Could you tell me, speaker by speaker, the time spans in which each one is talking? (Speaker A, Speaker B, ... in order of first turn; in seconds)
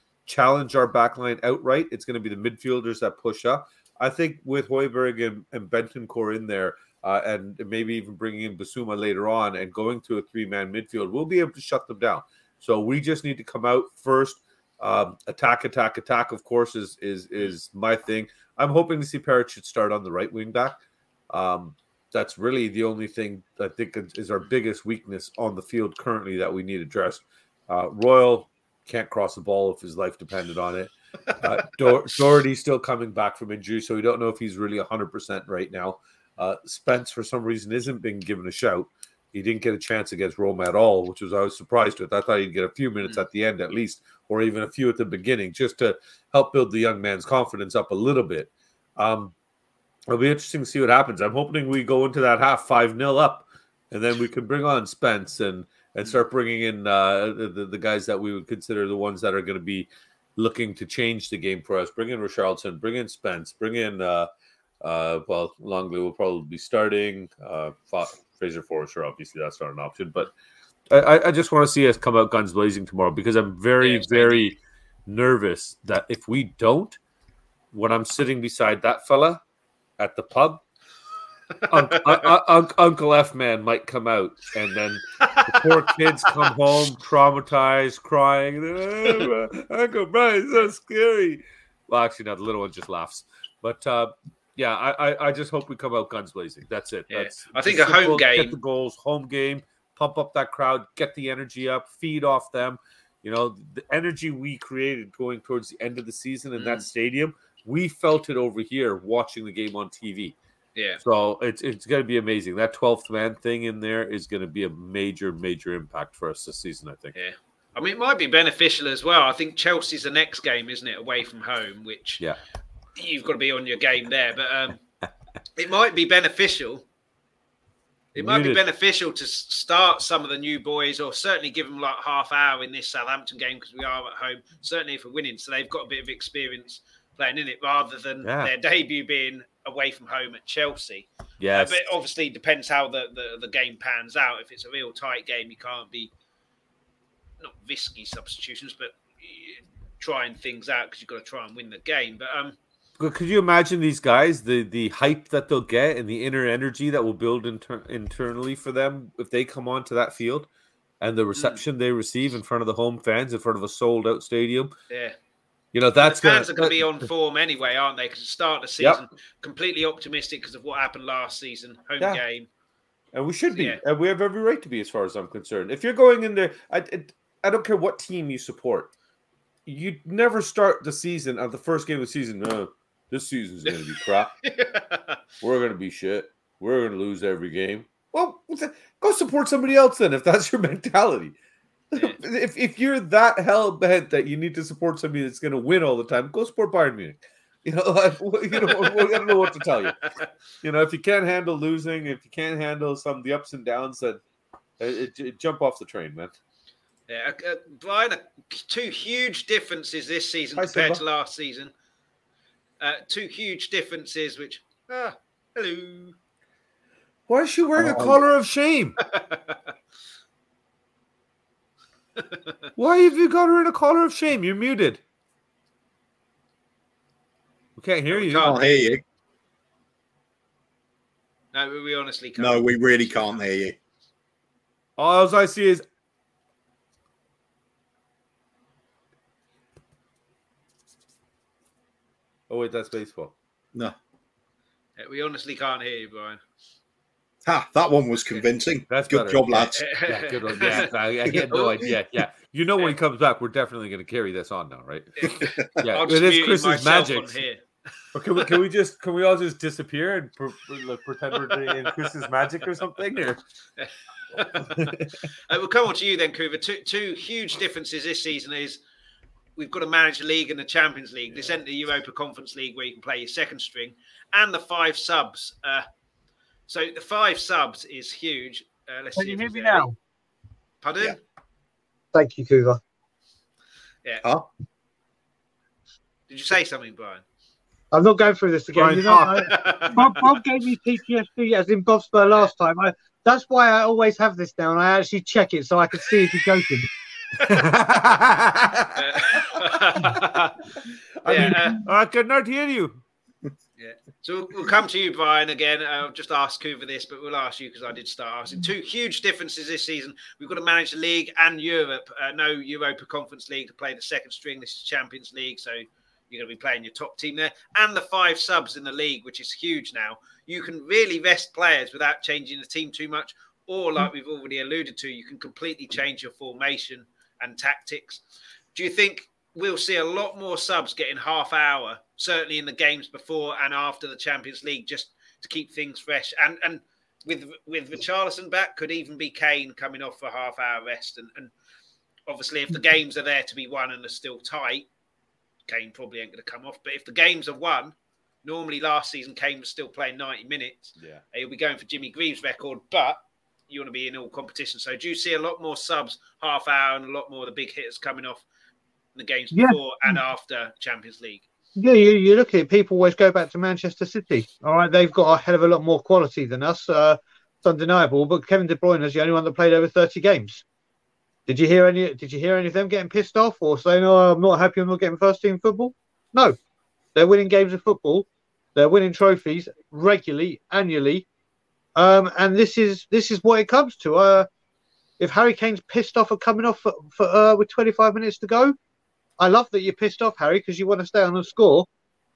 Speaker A: 0.3-20.8, 21.3-49.3, 50.1-64.3, 64.8-70.3, 70.9-77.0, 77.7-79.4, 80.0-80.6, 81.7-110.3, 111.0-117.1, 128.2-128.6, 138.2-138.5, 141.4-141.8, 153.0-160.5, 161.0-164.7, 165.7-166.9, 173.1-178.9, 179.7-184.3, 185.4-191.3, 191.9-199.9, 200.6-204.2, 204.8-206.3, 210.6-211.0, 217.3-219.0, 222.8-225.0, 227.8-228.6, 235.0-235.8, 242.5-243.3, 248.9-257.4, 258.1-263.4, 264.4-265.1, 288.7-289.5, 297.4-300.2, 301.2-303.0
Speaker B: 73.8-74.5, 81.7-82.3, 85.2-86.5, 97.1-98.6, 106.6-106.9, 117.2-122.2, 123.0-124.8, 125.6-126.8, 128.2-146.1, 147.4-152.6, 161.4-161.6, 164.9-165.2, 166.0-172.5, 173.5-173.8, 183.7-185.2, 198.5-200.3, 207.1-211.7, 212.8-216.2, 219.1-219.6, 222.2-222.7, 228.1-229.0, 231.5-233.4, 245.0-246.4, 249.8-250.9, 251.5-251.9, 255.2-257.6, 261.4-261.9, 263.8-264.9, 265.5-268.8, 269.6-275.9, 276.7-279.9, 280.8-281.2, 286.3-287.2, 289.3-290.3, 299.0-300.6, 301.2-301.8, 303.8-328.2, 328.8-341.5, 342.3-344.9, 345.7-358.4, 359.2-361.5
Speaker C: 217.8-218.2, 228.4-229.0, 232.4-233.8, 247.4-249.8, 255.4-255.9
Speaker D: 279.2-279.9, 282.1-282.8, 287.9-296.9, 359.5-360.2, 361.8-370.6, 371.5-376.6, 377.1-381.3, 382.0-384.5, 385.2-388.8, 389.4-391.9